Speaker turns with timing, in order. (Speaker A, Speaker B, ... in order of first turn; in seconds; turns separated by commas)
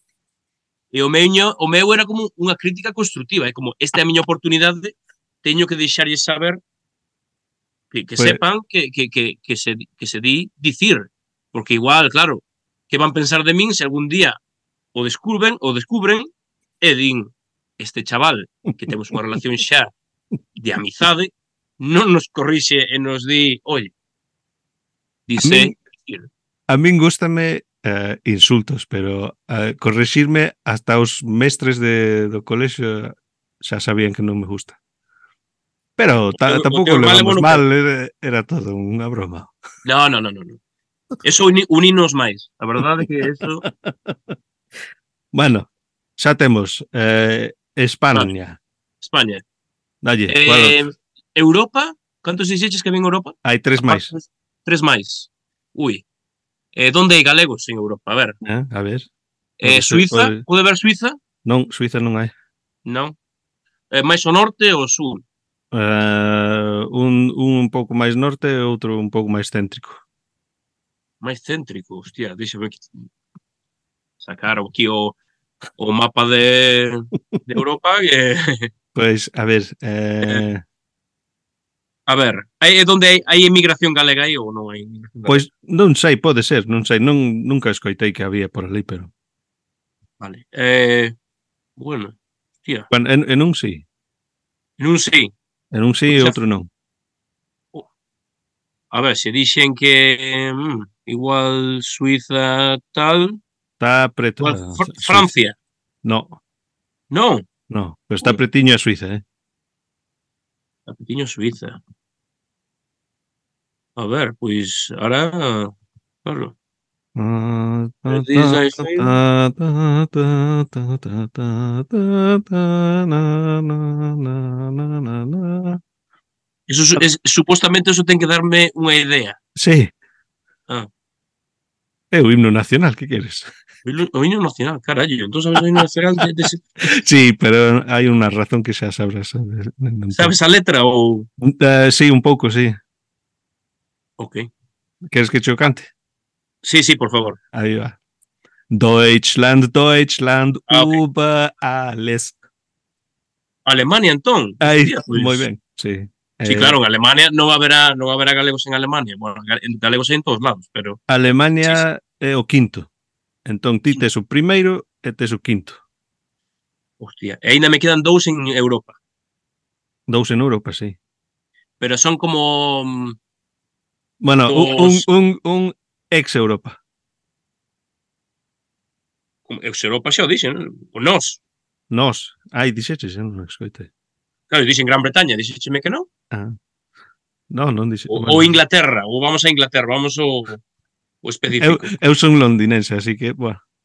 Speaker A: 0.9-6.6, Speaker A: 7.9-14.4, Speaker A: 14.9-16.3, Speaker A: 16.8-19.9, Speaker A: 20.6-23.9, Speaker A: 25.3-26.3, Speaker B: 25.4-25.7, Speaker B: 26.7-34.8, Speaker B: 36.0-39.5, Speaker A: 36.3-37.6, Speaker A: 39.8-40.6, Speaker A: 41.2-43.6, Speaker B: 43.0-44.4, Speaker B: 45.3-48.6, Speaker A: 49.0-49.4, Speaker B: 50.0-50.8, Speaker A: 50.3-56.0, Speaker B: 53.4-54.1, Speaker A: 56.7-58.4, Speaker B: 58.4-59.1, Speaker A: 59.6-61.2, Speaker B: 59.6-60.4, Speaker B: 61.4-62.3, Speaker A: 62.9-63.1, Speaker A: 63.9-65.2, Speaker B: 65.7-70.0, Speaker A: 71.2-73.0, Speaker A: 74.2-75.2, Speaker A: 75.8-78.7, Speaker B: 78.9-80.6, Speaker A: 82.1-85.5, Speaker B: 85.2-89.1, Speaker A: 90.2-91.1, Speaker A: 91.8-92.9, Speaker B: 92.9-93.8, Speaker A: 94.8-95.3, Speaker B: 95.7-96.7, Speaker A: 96.1-96.4, Speaker A: 98.9-103.4, Speaker B: 103.8-105.3, Speaker A: 104.4-105.5, Speaker B: 106.0-106.4, Speaker A: 107.1-107.5, Speaker B: 107.7-109.2, Speaker A: 110.9-111.8, Speaker A: 114.0-115.7, Speaker A: 116.2-116.5, Speaker B: 117.2-125.8, Speaker A: 118.1-119.2, Speaker A: 126.7-129.4, Speaker B: 129.6-129.9, Speaker B: 132.1-133.5, Speaker A: 133.8-136.6, Speaker B: 136.8-140.3, Speaker A: 140.1-141.3, Speaker B: 141.4-142.8, Speaker A: 144.2-144.5, Speaker B: 145.1-145.9, Speaker A: 146.6-147.4, Speaker B: 147.5-148.0, Speaker B: 148.7-152.3, Speaker A: 150.7-151.0, Speaker A: 153.7-155.4, Speaker B: 154.6-156.8, Speaker A: 156.4-161.0, Speaker B: 161.1-162.9, Speaker B: 163.4-165.8, Speaker A: 167.0-168.9, Speaker B: 170.1-170.9, Speaker A: 171.8-173.2, Speaker B: 174.2-176.8, Speaker A: 174.5-175.1, Speaker A: 179.5-181.4, Speaker B: 181.9-183.9, Speaker A: 184.5-186.1, Speaker B: 186.3-186.6, Speaker B: 187.5-188.5, Speaker A: 188.1-190.6, Speaker A: 191.2-191.9, Speaker B: 191.6-193.6